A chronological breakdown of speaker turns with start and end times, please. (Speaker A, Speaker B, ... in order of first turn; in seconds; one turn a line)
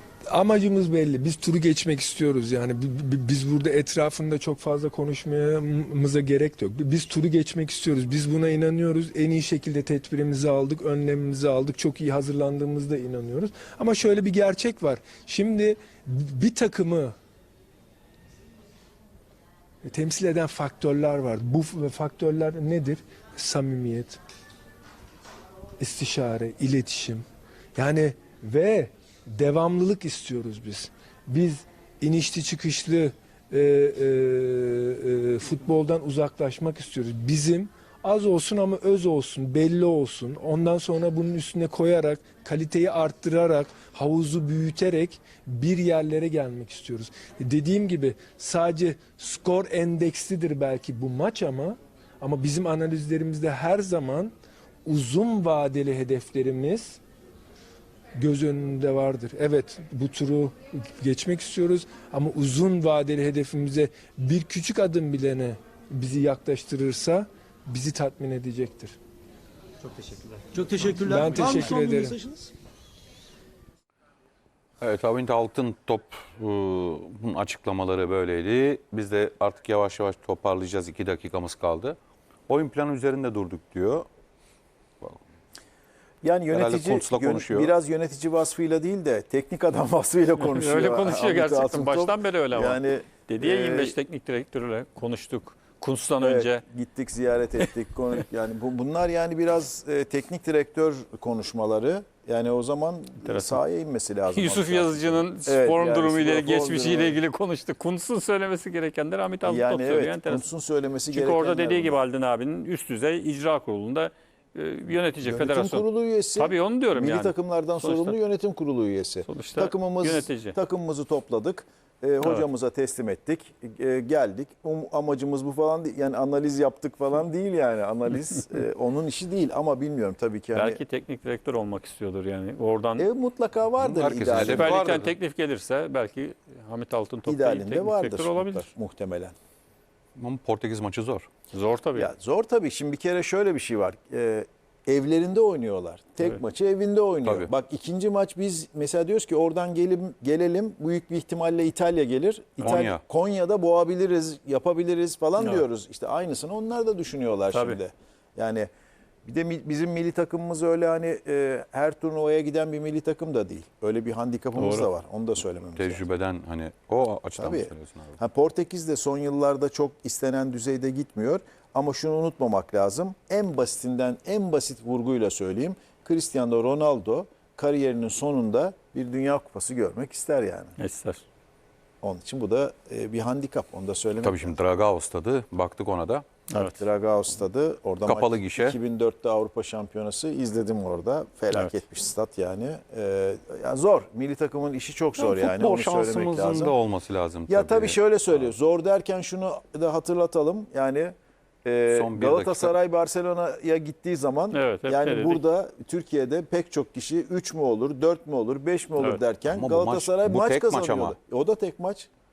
Speaker A: 0.3-17.1
Speaker A: 19.8-24.2
Speaker A: 25.8-27.2
Speaker A: 27.7-54.3
Speaker A: 54.8-57.0
Speaker A: 58.1-69.0
Speaker B: 69.8-71.7
Speaker C: 70.5-72.5
Speaker A: 71.0-72.2
Speaker D: 74.8-82.0
Speaker D: 82.5-84.1
Speaker E: 86.2-94.0
Speaker D: 86.5-87.7
Speaker B: 90.4-96.6
Speaker E: 96.2-107.2
Speaker B: 103.2-103.6
Speaker B: 104.3-110.5
Speaker E: 109.4-112.0
Speaker B: 111.1-118.2
Speaker E: 115.2-130.8
Speaker B: 119.2-120.5
Speaker B: 130.5-133.1
Speaker E: 133.0-135.0
Speaker D: 133.8-135.1
Speaker B: 134.3-138.7
Speaker E: 137.2-139.3
Speaker D: 140.2-141.3
Speaker B: 141.5-142.1
Speaker E: 141.9-158.7
Speaker D: 152.6-153.0
Speaker B: 155.4-155.6
Speaker B: 157.5-157.8
Speaker E: 159.2-166.0
Speaker B: 164.6-164.9
Speaker D: 165.8-168.2
Speaker E: 167.3-180.8
Speaker B: 180.8-181.2
Speaker E: 182.0-184.5
Speaker D: 184.2-186.4
Speaker B: 186.5-186.8
Speaker E: 186.5-196.8
Speaker D: 188.1-188.8
Speaker B: 191.5-191.8
Speaker D: 195.2-198.5
Speaker E: 197.5-212.1
Speaker D: 201.9-202.7
Speaker B: 204.5-205.4
Speaker D: 209.5-211.2